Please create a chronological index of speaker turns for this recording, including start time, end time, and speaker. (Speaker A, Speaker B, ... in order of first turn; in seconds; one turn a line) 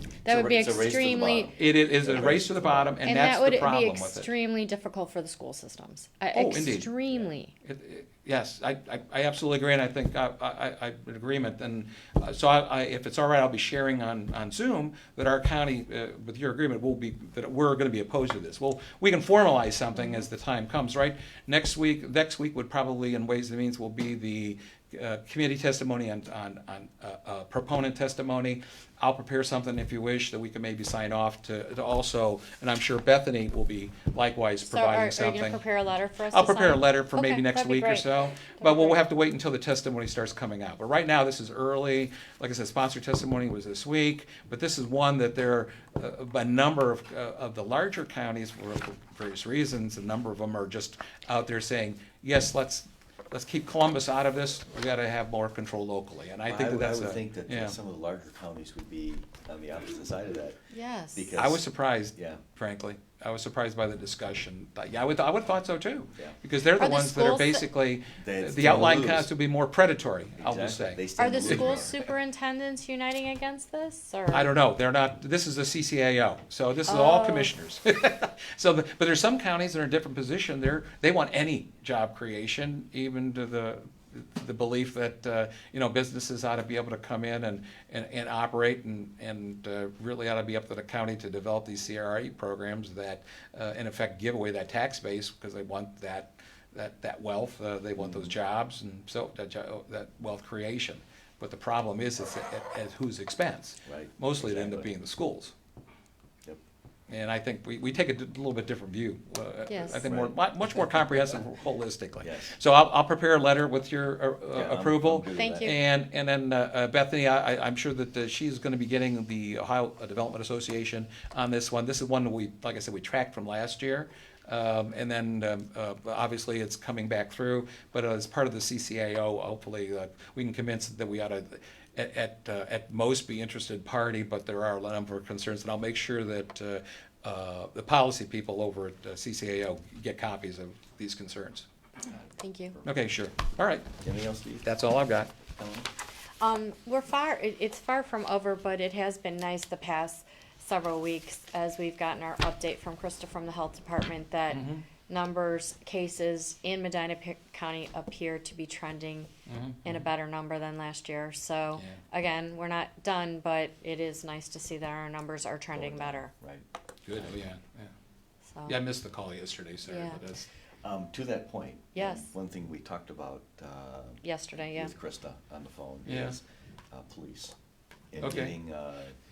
Speaker A: 0.2-1.5
Speaker B: 0.3-3.0
Speaker C: 1.6-4.3
Speaker A: 3.0-7.5
Speaker C: 6.3-6.9
Speaker C: 7.6-35.6
Speaker A: 34.6-39.0
Speaker C: 36.3-57.8
Speaker B: 56.5-60.6
Speaker A: 60.7-61.4
Speaker B: 61.1-61.6
Speaker C: 61.4-71.9
Speaker B: 62.2-62.4
Speaker A: 66.8-67.7
Speaker B: 68.2-69.3
Speaker B: 70.4-72.0
Speaker A: 71.2-74.5
Speaker C: 74.3-105.5
Speaker A: 76.9-77.5
Speaker B: 98.0-98.3
Speaker B: 103.8-104.9
Speaker C: 107.1-141.7
Speaker A: 109.7-110.0
Speaker B: 110.0-110.4
Speaker B: 112.2-112.5
Speaker B: 114.5-115.7
Speaker A: 115.4-115.8
Speaker A: 142.4-142.8
Speaker B: 142.7-143.0
Speaker C: 142.8-143.9
Speaker B: 144.0-144.7
Speaker C: 144.6-145.3
Speaker B: 145.6-145.9
Speaker A: 146.4-159.3
Speaker C: 154.5-154.9
Speaker C: 159.5-160.1
Speaker A: 159.8-166.3
Speaker B: 165.7-167.4
Speaker C: 167.1-167.9
Speaker A: 168.5-168.8
Speaker C: 168.7-170.5
Speaker A: 169.9-170.2
Speaker B: 170.8-177.5
Speaker A: 171.9-172.3
Speaker A: 174.2-174.9
Speaker C: 176.1-176.4
Speaker B: 178.1-179.1
Speaker C: 178.2-178.6